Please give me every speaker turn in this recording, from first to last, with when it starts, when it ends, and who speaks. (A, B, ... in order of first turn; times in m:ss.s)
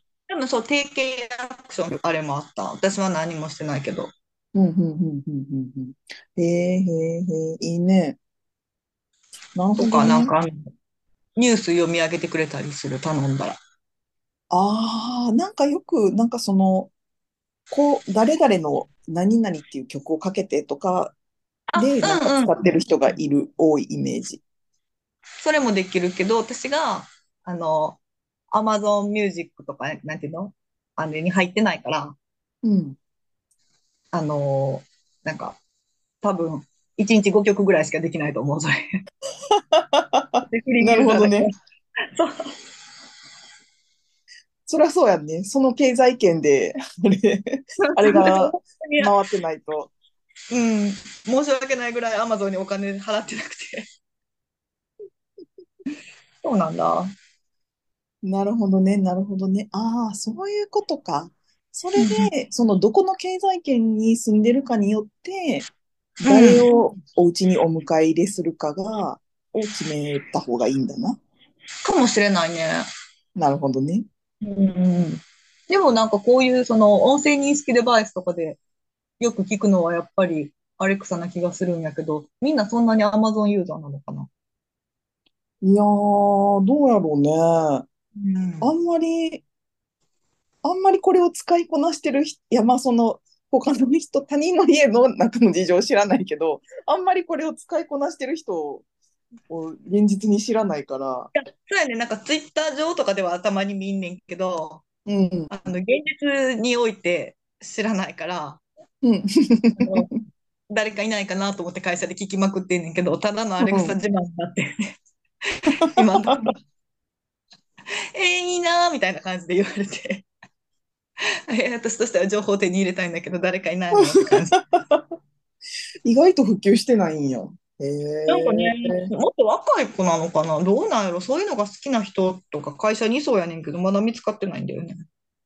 0:00.3-0:04.1 A
0:04.5-0:08.2 B
0:09.5-0:10.3 B
0:09.8-0:10.7 A
0:11.4-0:13.6 A
0:14.5-0:16.9 B
0:17.7-0:21.2 B
0:21.7-0:22.6 A
0:21.7-0:24.4 B
0:25.4-0:28.0 A
0:28.5-0:32.2 A
0:32.6-0:33.0 B
0:34.1-0:35.6 A
0:36.2-0:38.8 A
0:39.7-0:41.5 B
0:40.4-0:41.5 A
0:44.7-0:49.9 B
0:47.9-0:49.1 A
0:50.5-0:53.8 A
0:56.4-0:57.1 A
0:58.2-1:05.7 B
1:02.0-1:02.3 A
1:06.2-1:06.6 A
1:06.2-1:11.2 B
1:11.8-1:12.9 A
1:13.4-1:14.0 B
1:14.4-1:18.6 A
1:19.2-1:24.3 A
1:25.6-1:27.8 B
1:28.2-1:28.7 A
1:28.6-1:29.4 B
1:30.6-1:38.8 B
1:39.5-1:41.3 B
1:41.3-1:44.8 A
1:45.0-1:45.5 B
1:45.5-1:48.6 A
1:49.0-1:50.2 B
1:49.8-1:50.1 A
1:50.7-1:54.9 A
1:53.6-1:54.0 B
1:55.4-1:56.6 A
1:58.1-2:00.3 A
2:01.5-2:04.6 A
2:04.6-2:05.0 B
2:06.0-2:09.1 B
2:08.3-2:15.0 A